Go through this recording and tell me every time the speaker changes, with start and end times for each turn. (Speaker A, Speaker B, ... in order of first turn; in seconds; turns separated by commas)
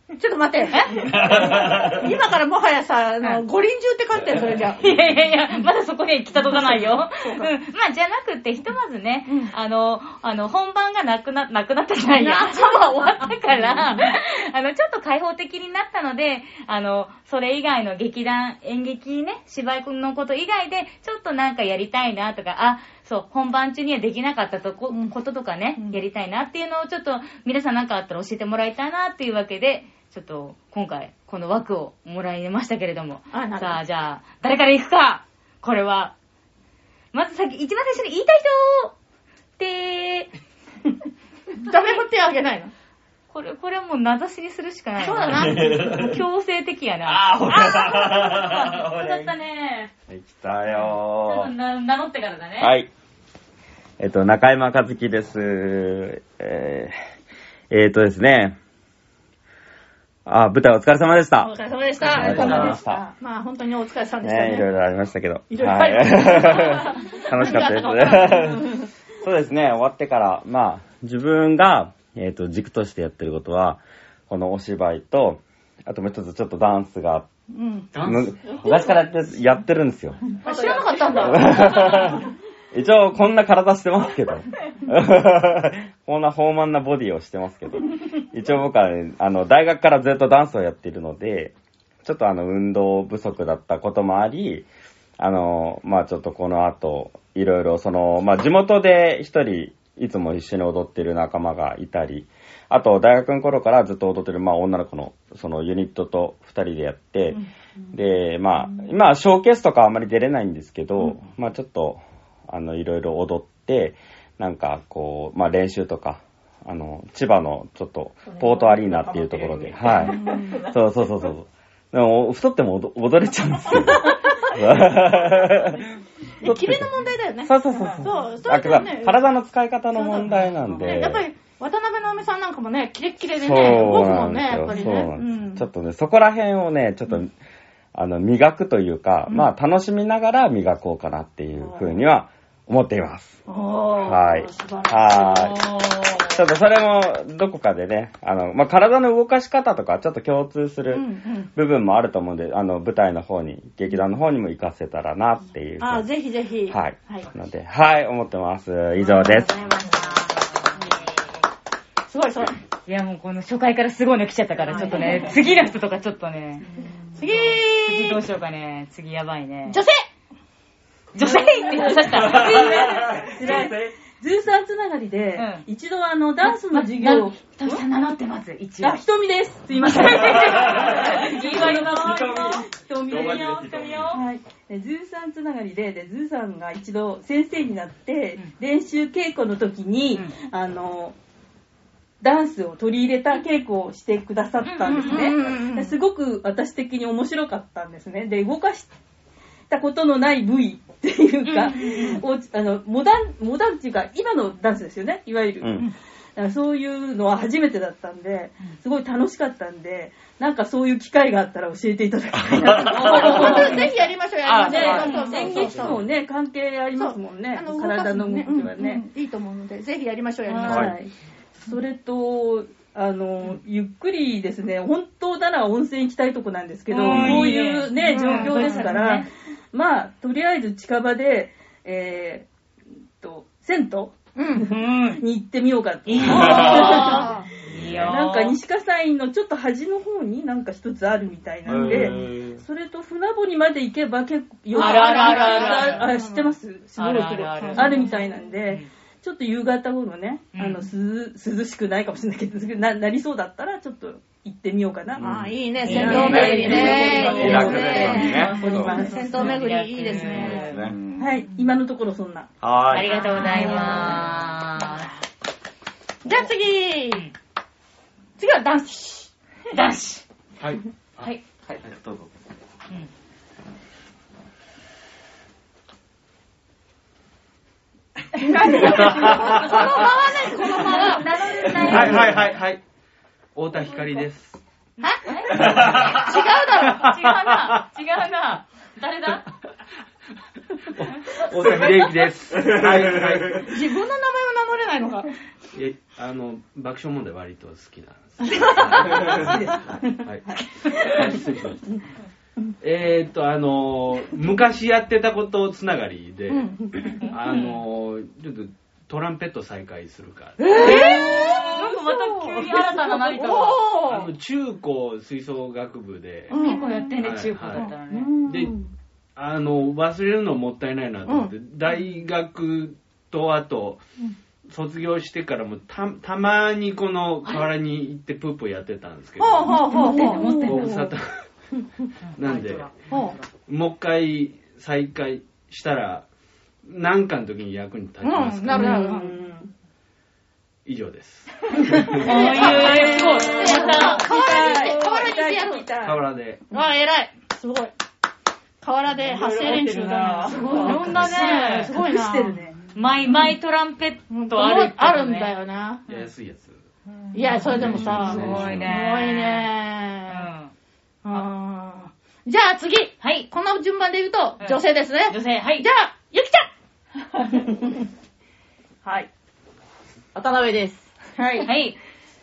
Speaker A: 0.1-4.9, Speaker B: 0.7-1.0, Speaker B: 4.8-36.1, Speaker A: 6.3-7.5, Speaker A: 9.3-9.5, Speaker A: 12.1-14.1, Speaker A: 24.9-25.1, Speaker A: 25.8-26.0, Speaker A: 33.3-33.8, Speaker B: 37.1-38.9, Speaker B: 39.6-40.3, Speaker A: 41.6-42.7, Speaker B: 41.7-42.0, Speaker B: 43.3-49.9, Speaker A: 45.0-45.8, Speaker C: 47.0-49.3, Speaker C: 50.1-51.5, Speaker B: 51.2-52.7, Speaker C: 52.6-52.9, Speaker C: 54.0-56.9, Speaker C: 57.7-58.5, Speaker C: 60.2-63.0, Speaker A: 61.4-64.7, Speaker D: 62.2-63.1, Speaker C: 64.2-77.3, Speaker A: 65.5-68.8, Speaker A: 77.5-77.9, Speaker E: 77.9-78.3, Speaker C: 78.0-80.2, Speaker A: 80.4-82.2, Speaker F: 80.4-81.7, Speaker C: 81.2-94.7, Speaker C: 95.2-125.9, Speaker F: 118.2-120.8, Speaker A: 120.0-120.5, Speaker C: 126.4-126.9, Speaker A: 126.4-129.3, Speaker C: 127.4-131.3, Speaker F: 127.7-128.1, Speaker A: 129.9-135.6, Speaker C: 133.3-137.3, Speaker C: 137.9-143.4, Speaker A: 141.6-142.0, Speaker A: 143.5-145.5, Speaker C: 143.9-156.1, Speaker B: 145.6-146.3, Speaker A: 150.9-151.5, Speaker A: 155.8-157.3, Speaker C: 156.7-159.6, Speaker B: 159.4-160.3, Speaker A: 162.1-162.6, Speaker B: 162.9-166.7, Speaker A: 164.7-165.4, Speaker D: 164.7-165.2, Speaker A: 167.2-168.2, Speaker B: 167.2-169.8, Speaker A: 169.7-170.0, Speaker B: 171.1-173.5, Speaker D: 171.2-177.8, Speaker B: 175.3-175.6, Speaker B: 176.4-179.0, Speaker D: 178.8-191.1, Speaker B: 179.7-184.2, Speaker C: 183.1-184.0, Speaker D: 192.2-198.9, Speaker B: 194.6-195.3, Speaker A: 194.9-195.9, Speaker D: 199.7-205.8, Speaker B: 201.4-202.2, Speaker D: 206.3-214.0, Speaker C: 212.5-213.2, Speaker B: 213.0-213.9, Speaker A: 213.0-216.0, Speaker F: 213.3-213.8, Speaker B: 214.4-215.4, Speaker D: 214.5-219.0, Speaker F: 214.9-215.7, Speaker C: 215.6-215.9, Speaker A: 216.9-221.0, Speaker B: 220.5-220.9, Speaker C: 220.7-220.9, Speaker D: 220.7-221.1, Speaker D: 221.6-232.5, Speaker B: 226.9-229.3, Speaker A: 227.0-228.9, Speaker D: 233.2-237.4, Speaker A: 234.3-234.7, Speaker B: 234.7-235.2, Speaker B: 236.1-238.6, Speaker A: 236.2-237.5, Speaker D: 238.0-255.3, Speaker C: 241.7-242.6, Speaker B: 244.7-246.1, Speaker A: 244.7-246.6, Speaker B: 246.9-248.9, Speaker A: 247.6-248.3, Speaker B: 250.5-250.9, Speaker C: 255.2-258.9, Speaker A: 255.2-261.4, Speaker D: 255.8-259.6, Speaker B: 255.9-260.8, Speaker F: 256.6-257.8, Speaker C: 260.4-260.9, Speaker D: 261.2-262.5, Speaker C: 262.6-263.1, Speaker B: 262.9-265.1, Speaker A: 263.0-265.0, Speaker D: 263.4-264.3, Speaker A: 266.2-267.2, Speaker A: 268.4-269.3, Speaker B: 269.7-270.2, Speaker C: 271.9-272.2, Speaker A: 278.4-282.1, Speaker E: 278.8-279.9, Speaker B: 279.4-279.9, Speaker B: 280.5-282.5, Speaker E: 281.7-282.8, Speaker E: 283.5-284.6, Speaker B: 285.0-289.5, Speaker A: 285.0-287.1, Speaker E: 285.5-286.3, Speaker E: 290.9-293.7, Speaker A: 293.6-295.3, Speaker E: 295.7-301.8, Speaker E: 302.8-311.2, Speaker A: 306.5-307.3, Speaker B: 307.2-307.7, Speaker A: 310.6-311.9, Speaker B: 310.8-313.8, Speaker D: 311.0-311.8, Speaker D: 312.6-313.2, Speaker A: 312.7-314.3, Speaker E: 313.9-318.8, Speaker B: 316.5-318.3, Speaker A: 316.5-317.1, Speaker A: 317.8-318.8, Speaker E: 319.4-324.0, Speaker A: 321.2-321.5, Speaker E: 324.7-331.3, Speaker B: 327.4-327.7, Speaker A: 329.4-330.9, Speaker B: 329.9-331.1, Speaker D: 330.1-330.4, Speaker B: 332.2-333.5, Speaker E: 332.3-332.9, Speaker A: 333.1-333.4, Speaker E: 333.6-336.3, Speaker E: 336.8-339.2, Speaker A: 338.2-339.4, Speaker D: 338.9-339.7, Speaker E: 340.8-342.5, Speaker B: 342.2-344.3, Speaker A: 342.3-345.9, Speaker D: 342.3-346.3, Speaker F: 342.4-343.9, Speaker E: 346.0-346.6, Speaker A: 346.7-347.9, Speaker A: 348.8-352.6, Speaker F: 349.1-351.3, Speaker B: 350.5-352.0, Speaker D: 350.5-352.8, Speaker B: 352.9-355.5, Speaker A: 354.3-356.0, Speaker E: 356.1-356.8, Speaker A: 357.3-360.5, Speaker E: 357.4-359.0, Speaker B: 357.7-359.7, Speaker B: 360.3-360.7, Speaker A: 361.2-366.7, Speaker B: 363.2-363.5, Speaker B: 364.6-365.9, Speaker F: 370.3-371.1, Speaker A: 371.4-371.6, Speaker B: 371.6-372.0